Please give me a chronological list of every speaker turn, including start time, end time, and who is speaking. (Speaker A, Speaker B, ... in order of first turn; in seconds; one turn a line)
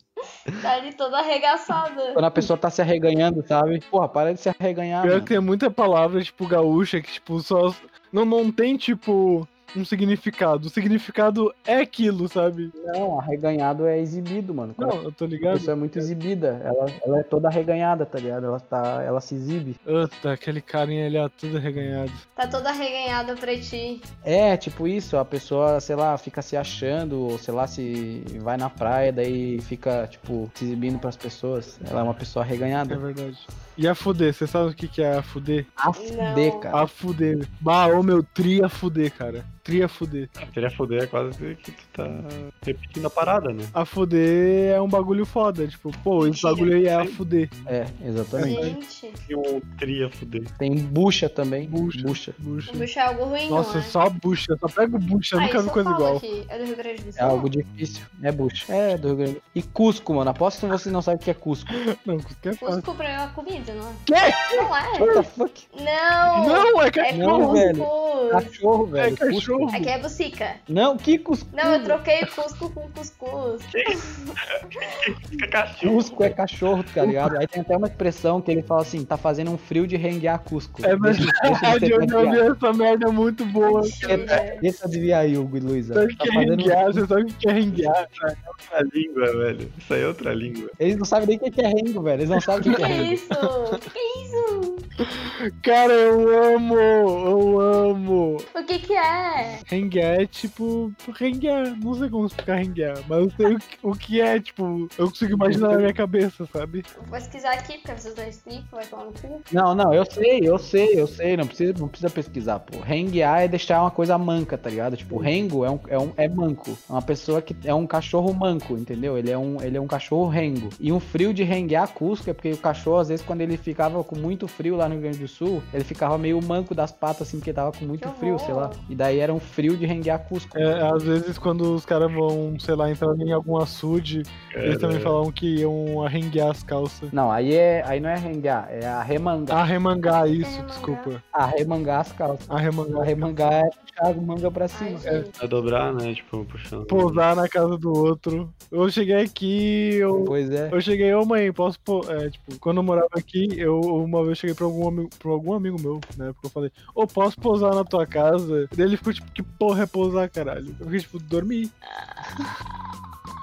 Speaker A: 0.6-2.2
Speaker B: 2.1-5.3
Speaker C: 5.0-12.7
Speaker B: 12.8-15.0
Speaker C: 14.8-16.1
Speaker B: 15.5-19.8
Speaker C: 19.9-22.2
Speaker A: 22.4-24.1
Speaker B: 24.2-33.0
Speaker C: 32.9-35.7
Speaker B: 35.8-36.9
Speaker A: 36.0-36.7
Speaker C: 36.7-40.3
Speaker D: 40.4-43.7
Speaker C: 43.8-47.5
Speaker A: 46.2-46.8
Speaker B: 47.7-48.7
Speaker C: 48.4-48.8
Speaker A: 48.4-49.2
Speaker D: 49.3-50.5
Speaker B: 50.6-52.4
Speaker C: 51.6-52.9
Speaker A: 52.7-54.0
Speaker C: 53.5-56.2
Speaker A: 55.4-57.5
Speaker B: 57.2-61.8
Speaker C: 61.7-62.8
Speaker A: 62.6-65.2
Speaker C: 64.1-65.2
Speaker B: 65.0-65.7
Speaker A: 65.7-68.5
Speaker C: 66.4-67.8
Speaker B: 67.1-69.8
Speaker C: 69.0-69.9
Speaker A: 69.7-70.6
Speaker B: 70.7-72.0
Speaker A: 71.5-74.3
Speaker D: 73.7-76.4
Speaker B: 75.8-82.4
Speaker C: 80.8-84.5
Speaker A: 83.6-84.7
Speaker B: 84.0-87.0
Speaker C: 85.9-88.4
Speaker D: 88.7-90.7
Speaker B: 90.8-93.2
Speaker C: 92.4-93.2
Speaker A: 92.7-94.9
Speaker C: 95.1-98.5
Speaker A: 98.5-99.6
Speaker C: 99.7-106.9
Speaker B: 105.3-105.9
Speaker A: 107.0-109.5
Speaker B: 109.5-130.8
Speaker A: 128.0-128.8
Speaker C: 130.5-137.1
Speaker D: 134.5-135.2
Speaker B: 137.1-139.6
Speaker C: 139.5-141.2
Speaker A: 140.4-141.1
Speaker B: 141.3-145.2
Speaker C: 142.5-143.3
Speaker A: 144.7-145.4
Speaker D: 145.4-147.2
Speaker C: 146.9-161.7
Speaker B: 150.2-150.8
Speaker A: 161.9-162.2